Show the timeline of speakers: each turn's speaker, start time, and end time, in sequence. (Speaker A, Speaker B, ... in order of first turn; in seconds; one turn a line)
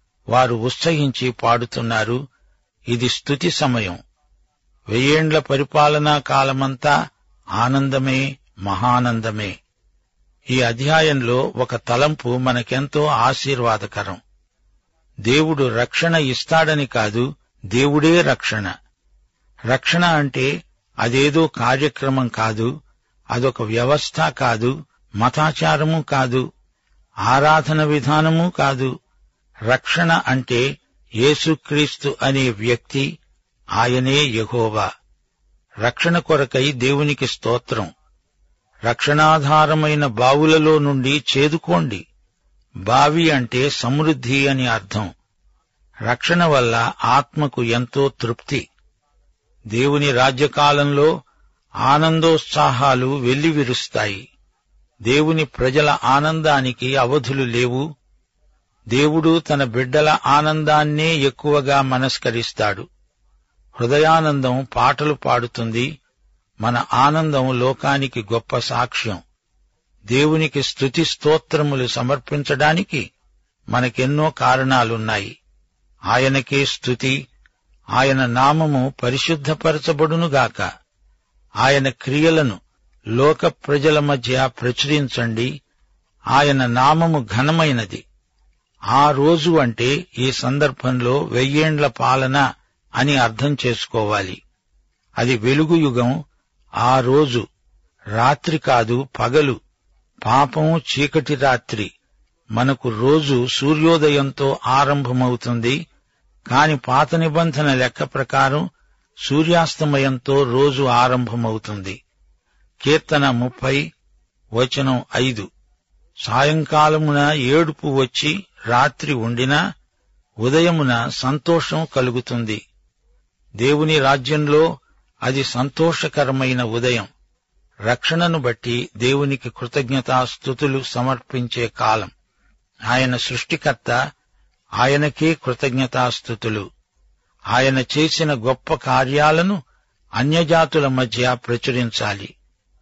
Speaker A: 0.3-2.2
Speaker A: 2.9-4.0
Speaker A: 4.9-6.9
Speaker A: 7.6-9.6
Speaker A: 10.5-14.2
Speaker A: 15.3-18.7
Speaker A: 19.7-20.5
Speaker A: 21.0-22.7
Speaker A: 23.3-26.5
Speaker A: 27.3-28.9
Speaker A: 29.7-30.6
Speaker A: 31.2-33.1
Speaker A: 33.8-34.9
Speaker A: 35.8-37.9
Speaker A: 38.9-42.0
Speaker A: 42.9-45.1
Speaker A: 46.1-48.6
Speaker A: 49.7-51.1
Speaker A: 51.9-54.2
Speaker A: 55.1-57.8
Speaker A: 58.9-62.9
Speaker A: 63.8-65.9
Speaker A: 66.6-69.2
Speaker A: 70.1-73.1
Speaker A: 73.7-75.3
Speaker A: 76.1-77.2
Speaker A: 78.0-80.7
Speaker A: 81.6-82.6
Speaker A: 83.2-85.5
Speaker A: 86.3-88.0
Speaker A: 88.9-92.4
Speaker A: 93.0-94.4
Speaker A: 95.2-96.2
Speaker A: 96.8-97.4
Speaker A: 98.2-99.6
Speaker A: 100.2-101.9
Speaker A: 102.6-105.8
Speaker A: 106.5-108.7
Speaker A: 109.3-112.0
Speaker A: 112.8-113.8
Speaker A: 114.6-115.5
Speaker A: 116.3-119.6
Speaker A: 120.4-122.6
Speaker A: 123.6-124.7
Speaker A: 125.3-127.1
Speaker A: 127.9-132.1
Speaker A: 132.9-134.0
Speaker A: 134.8-136.7
Speaker A: 137.5-139.6
Speaker A: 140.2-142.3